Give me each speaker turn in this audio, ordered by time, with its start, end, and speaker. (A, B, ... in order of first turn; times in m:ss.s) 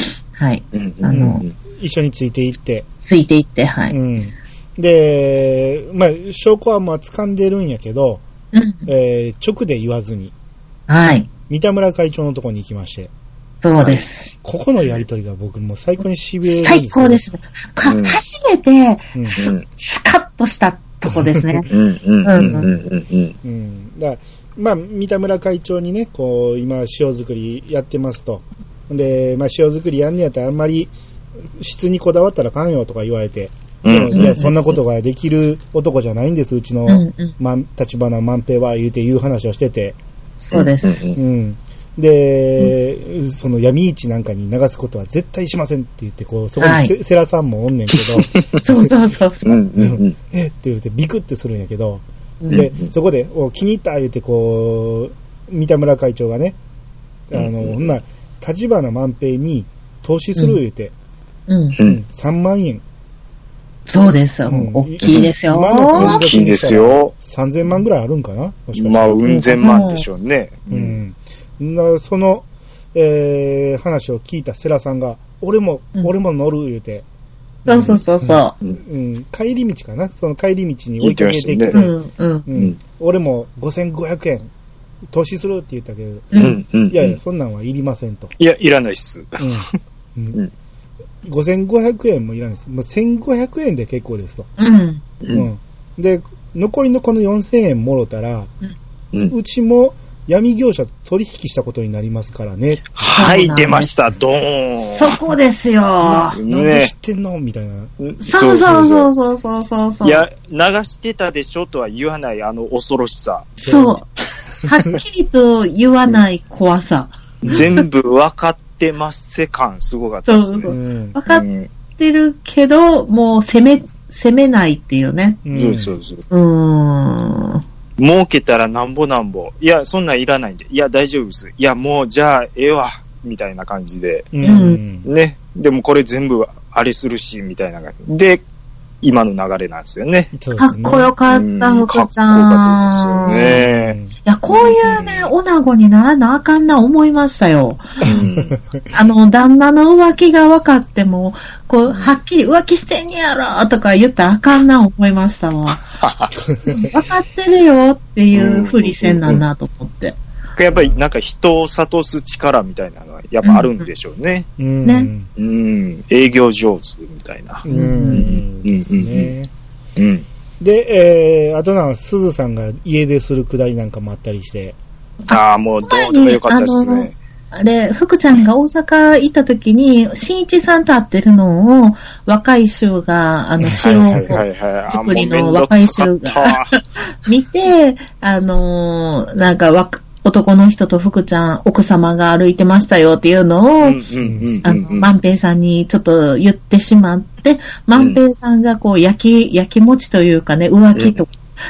0:00.3-0:01.4 A
0:00.7-0:01.5 B
0:01.1-0:02.9 C
0:03.0-0:04.0 A
0:03.9-0:08.2 C
0:08.5-0:08.8 A
0:08.8-0:10.3 C
0:10.9-0:11.3 A
0:11.5-0:13.1 C
0:13.6-0:14.3 A
0:14.4-0:17.2 C
0:16.4-0:21.7 A
0:17.8-0:18.2 B
0:19.1-0:19.4 C
0:19.4-0:19.6 B
0:21.1-0:21.7 C
0:21.7-0:23.3 B
0:22.2-0:22.7 A
0:23.4-0:30.9 C
0:31.6-0:40.0 C
0:33.8-0:34.5 B
0:34.1-0:34.5 A
0:36.9-0:37.3 A
0:40.4-0:41.2 A
0:40.5-0:41.2 B
0:41.2-0:48.9 C
0:46.6-0:46.9 A
0:47.9-0:48.6 B
0:48.6-0:49.6 A
0:49.4-0:50.2 B
0:49.8-0:56.6 C
0:52.4-0:52.7 A
0:52.5-0:52.9 B
0:57.3-1:00.9 C
0:57.3-0:57.9 B
1:01.5-1:01.8 A
1:01.8-1:02.0 B
1:01.8-1:02.8 C
1:03.9-1:06.6 A
1:04.5-1:09.2 C
1:05.0-1:05.3 B
1:05.9-1:07.1 B
1:08.8-1:11.0 B
1:09.2-1:10.0 A
1:10.7-1:17.0 C
1:17.6-1:21.9 C
1:17.7-1:18.6 A
1:21.0-1:21.8 B
1:21.7-1:22.5 A
1:22.5-1:24.5 C
1:25.1-1:28.3 C
1:26.3-1:26.6 A
1:26.3-1:27.2 B
1:28.4-1:29.5 B
1:29.4-1:30.4 C
1:31.2-1:34.5 C
1:34.6-1:35.0 A
1:35.2-1:35.5 B
1:35.3-1:38.5 C
1:39.3-1:43.2 C
1:43.0-1:45.2 B
1:43.1-1:44.0 A
1:44.8-1:46.4 A
1:46.0-1:47.9 C
1:46.3-1:46.9 B
1:48.0-1:49.1 B
1:48.2-1:50.2 A
1:50.0-1:53.5 B
1:53.6-1:54.0 A
1:53.6-1:54.0 C
1:54.6-1:57.6 A
1:57.4-1:57.7 C
1:57.4-2:00.7 B
2:00.3-2:01.4 A
2:00.7-2:01.2 C
2:01.3-2:01.7 B
2:02.0-2:05.4 A
2:05.4-2:05.9 C
2:05.5-2:06.2 B
2:06.3-2:07.6 A
2:08.0-2:18.4 B
2:14.3-2:15.1 C
2:14.4-2:14.8 A
2:19.0-2:20.3 B
2:20.3-2:21.1 C
2:20.6-2:23.6 A
2:21.3-2:24.0 B
2:23.4-2:24.1 C
2:24.2-2:27.8 A
2:24.5-2:25.3 B
2:28.0-2:28.8 C
2:28.0-2:28.6 B
2:28.9-2:35.8 A
2:31.9-2:32.2 B
2:35.8-2:36.3 B
2:36.4-2:37.0 C
2:36.6-2:40.2 A
2:38.3-2:39.4 B
2:40.6-2:44.5 B
2:40.7-2:41.0 C
2:43.4-2:43.8 A
2:44.6-2:45.3 C
2:44.8-2:45.1 A
2:45.4-2:49.3 B
2:47.6-2:49.5 C
2:47.7-2:48.3 A
2:50.0-2:50.2 B
2:50.6-2:54.8 C
2:55.3-3:06.6 A
2:55.3-2:57.2 B
3:03.6-3:04.4 C
3:03.8-3:06.8 B
3:07.1-3:14.0 A
3:13.8-3:15.1 B
3:14.2-3:14.7 C
3:14.6-3:21.4 A
3:17.9-3:18.2 B
3:20.9-3:21.2 B